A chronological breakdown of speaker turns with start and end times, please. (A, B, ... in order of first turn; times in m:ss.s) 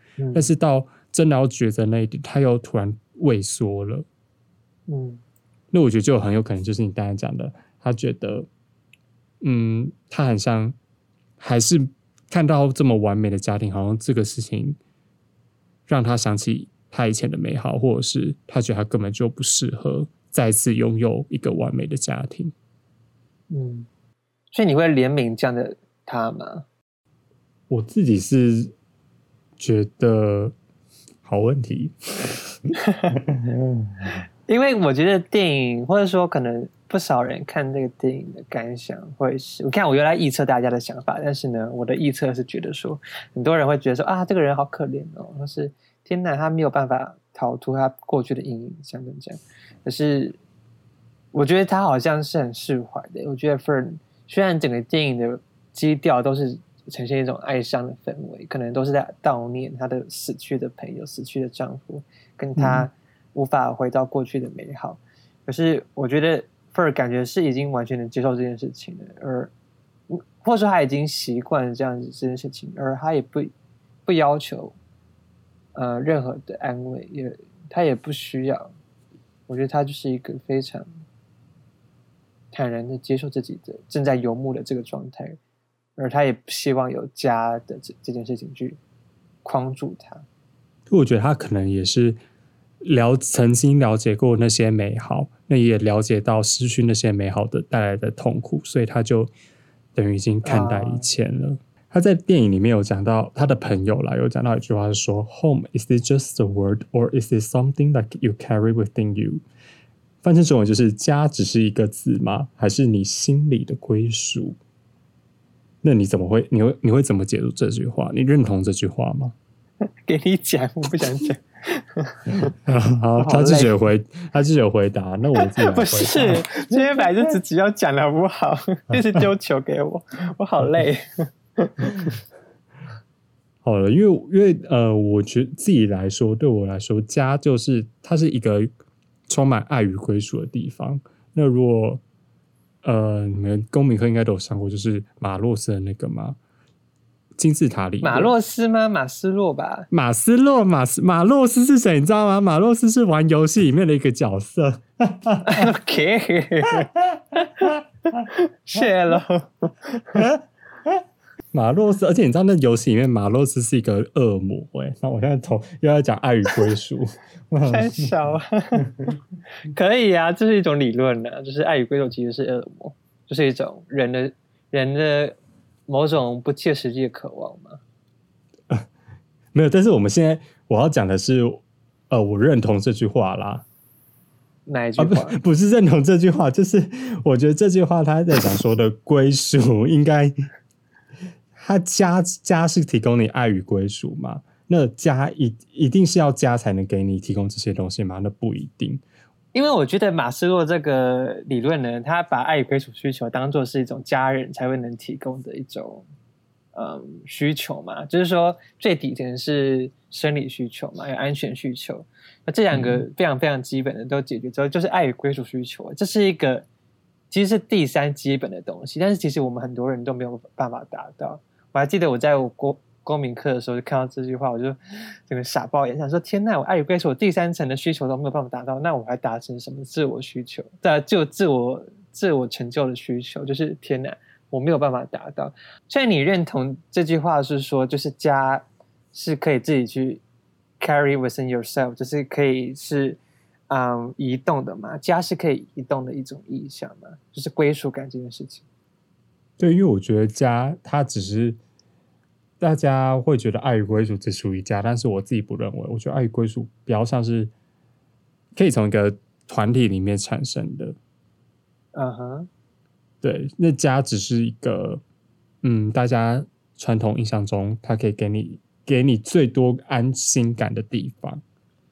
0:00.2-0:00.5 A
0:00.3-0:04.1 B
0:04.9-0:05.2 A
0:05.7-0:08.5 B
0:09.4-0:10.8 B
0:11.4-0:14.8 B
0:15.9-0:22.5 B
0:23.5-0:23.9 A
0:24.5-0:26.7 A
0:27.7-0:28.7 B
0:29.6-0:30.5 B
0:31.2-0:34.1 B
0:34.5-0:50.4 A
0:51.3-1:09.5 A
1:02.6-1:02.9 B
1:10.1-1:13.5 A
1:14.1-1:14.8 A
1:15.8-1:18.7 A
1:19.5-1:21.0 A
1:22.5-1:25.4 A
1:26.0-1:28.8 A
1:29.4-1:30.2 A
1:30.9-1:32.2 B
1:32.8-1:39.3 B
1:40.0-1:49.4 B
1:40.4-1:41.1 A
1:50.2-1:54.6 B
1:55.8-1:59.4 B
2:00.1-2:02.5 A
2:02.6-2:06.5 B
2:03.2-2:03.7 A
2:05.4-2:12.2 A
2:13.6-2:18.7 B
2:19.3-2:22.0 B
2:22.8-2:26.4 B
2:27.4-2:28.3 B
2:28.0-2:29.9 A
2:29.9-2:35.6 B
2:35.5-2:37.7 A
2:36.8-2:38.2 B
2:38.3-2:40.3 A
2:40.2-2:41.0 B
2:41.5-2:48.1 B
2:47.6-2:48.9 A
2:49.6-2:55.4 A
2:55.9-2:57.8 A
2:59.5-3:03.6 B
3:04.7-3:05.4 A
3:05.0-3:10.4 B
3:11.6-3:19.0 B
3:19.5-3:26.1 A
3:26.7-3:36.7 A
3:32.7-3:33.0 B
3:37.3-4:00.2 A
4:00.8-4:08.7 A
4:09.6-4:11.6 B
4:12.6-4:17.5 B
4:18.6-4:21.0 B
4:21.9-4:22.5 A
4:23.2-4:25.0 B
4:25.6-4:31.4 B